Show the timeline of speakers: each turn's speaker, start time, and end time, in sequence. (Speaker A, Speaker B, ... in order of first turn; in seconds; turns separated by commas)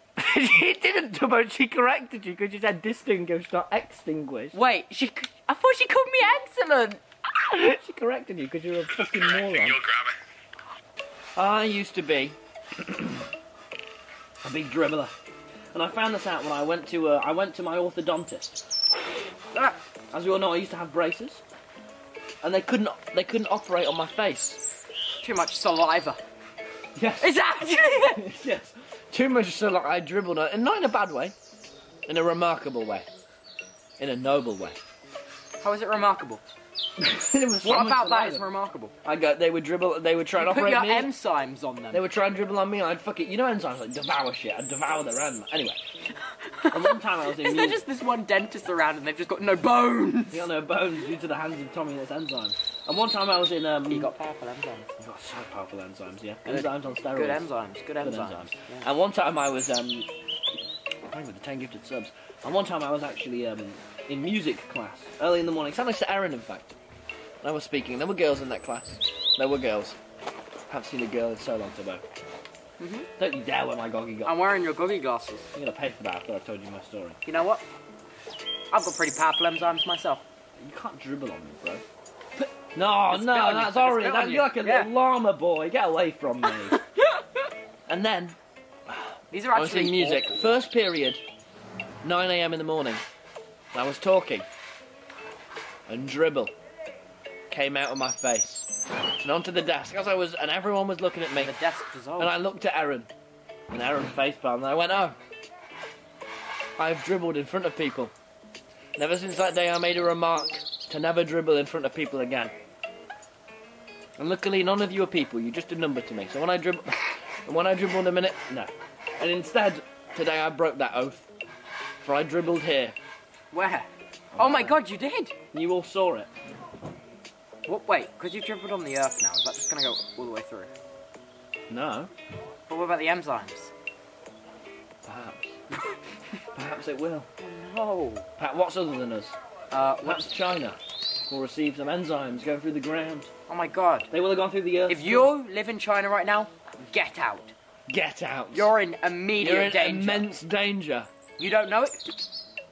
Speaker A: 0.2-4.5, Speaker B: 4.5-7.0, Speaker A: 7.4-9.8, Speaker A: 11.3-13.2, Speaker A: 14.4-15.1, Speaker A: 15.7-18.7, Speaker B: 19.5-19.8, Speaker A: 20.1-21.4, Speaker A: 22.4-24.6, Speaker B: 25.2-26.2, Speaker A: 26.9-27.5, Speaker B: 27.2-28.2, Speaker A: 28.1-31.3, Speaker A: 32.0-33.0, Speaker A: 34.0-34.8, Speaker B: 35.6-36.4, Speaker A: 37.0-38.5, Speaker B: 37.6-38.9, Speaker A: 39.0-41.1, Speaker B: 40.4-42.0, Speaker A: 41.9-45.8, Speaker B: 46.6-50.5, Speaker A: 46.7-47.8, Speaker A: 50.3-54.1, Speaker B: 53.9-55.0, Speaker A: 55.0-57.5, Speaker B: 56.4-58.9, Speaker A: 58.0-60.1, Speaker A: 61.1-66.7, Speaker A: 67.4-70.0, Speaker A: 70.7-72.0, Speaker B: 72.8-73.1, Speaker A: 73.2-74.4, Speaker B: 74.2-75.5, Speaker A: 75.5-77.2, Speaker B: 77.2-77.6, Speaker B: 78.7-80.2, Speaker A: 80.6-81.8, Speaker A: 82.7-86.8, Speaker B: 83.0-84.9, Speaker A: 87.9-88.4, Speaker A: 88.9-91.2, Speaker B: 89.3-90.5, Speaker A: 92.0-93.0, Speaker A: 93.7-94.5, Speaker A: 95.9-96.5, Speaker A: 97.5-101.5, Speaker B: 101.4-102.4, Speaker A: 102.2-103.1, Speaker A: 103.7-105.2, Speaker A: 106.8-108.1, Speaker A: 109.0-112.5, Speaker A: 114.2-121.3, Speaker A: 122.0-122.9, Speaker B: 123.5-125.3, Speaker A: 124.3-124.8, Speaker A: 125.5-126.3, Speaker B: 127.6-130.7, Speaker A: 131.7-132.1, Speaker B: 132.7-133.7, Speaker A: 135.0-135.6, Speaker A: 136.5-137.3, Speaker B: 137.4-138.3, Speaker A: 138.4-139.3, Speaker B: 139.7-140.3, Speaker A: 140.0-143.3, Speaker B: 143.5-144.1, Speaker A: 144.1-145.3, Speaker B: 144.9-147.5, Speaker A: 147.9-148.7, Speaker B: 148.5-150.3, Speaker A: 149.4-151.1, Speaker B: 151.4-152.1